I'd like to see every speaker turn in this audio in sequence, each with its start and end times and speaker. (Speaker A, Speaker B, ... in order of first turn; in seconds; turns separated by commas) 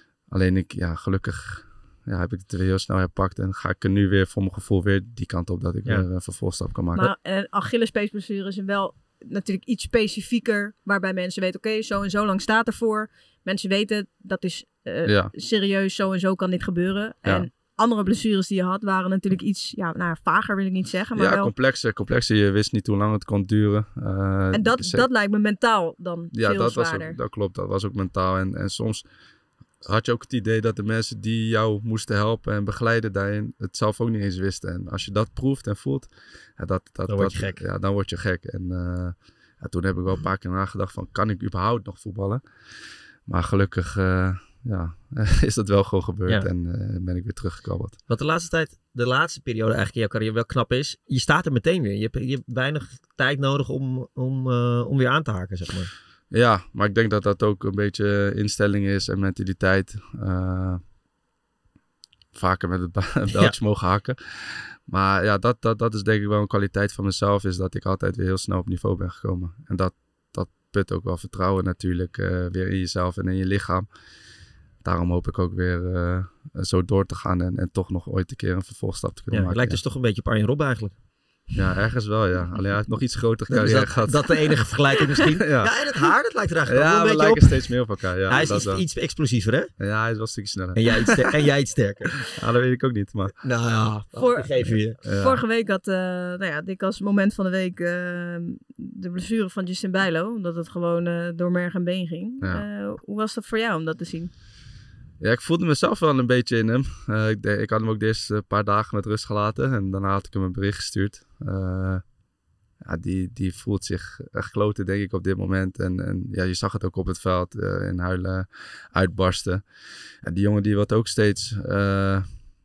Speaker A: 0.3-7.1, Speaker B: 7.0-21.5, Speaker A: 15.1-15.3, Speaker A: 21.1-25.1, Speaker B: 24.5-27.2, Speaker A: 26.3-29.0, Speaker A: 29.8-42.4, Speaker C: 37.1-37.6, Speaker A: 43.3-48.0, Speaker C: 48.1-55.9, Speaker A: 56.3-60.8, Speaker A: 62.3-73.9, Speaker A: 74.8-79.8, Speaker C: 79.3-81.0, Speaker A: 81.5-85.7, Speaker C: 83.5-87.7, Speaker A: 86.7-88.8, Speaker C: 88.3-89.7, Speaker A: 89.8-91.3, Speaker C: 90.8-92.3, Speaker A: 92.3-93.4, Speaker C: 93.4-95.0, Speaker B: 94.2-104.3, Speaker A: 95.0-95.4, Speaker A: 102.4-102.7, Speaker A: 105.2-112.0, Speaker A: 112.8-119.6, Speaker A: 120.2-122.3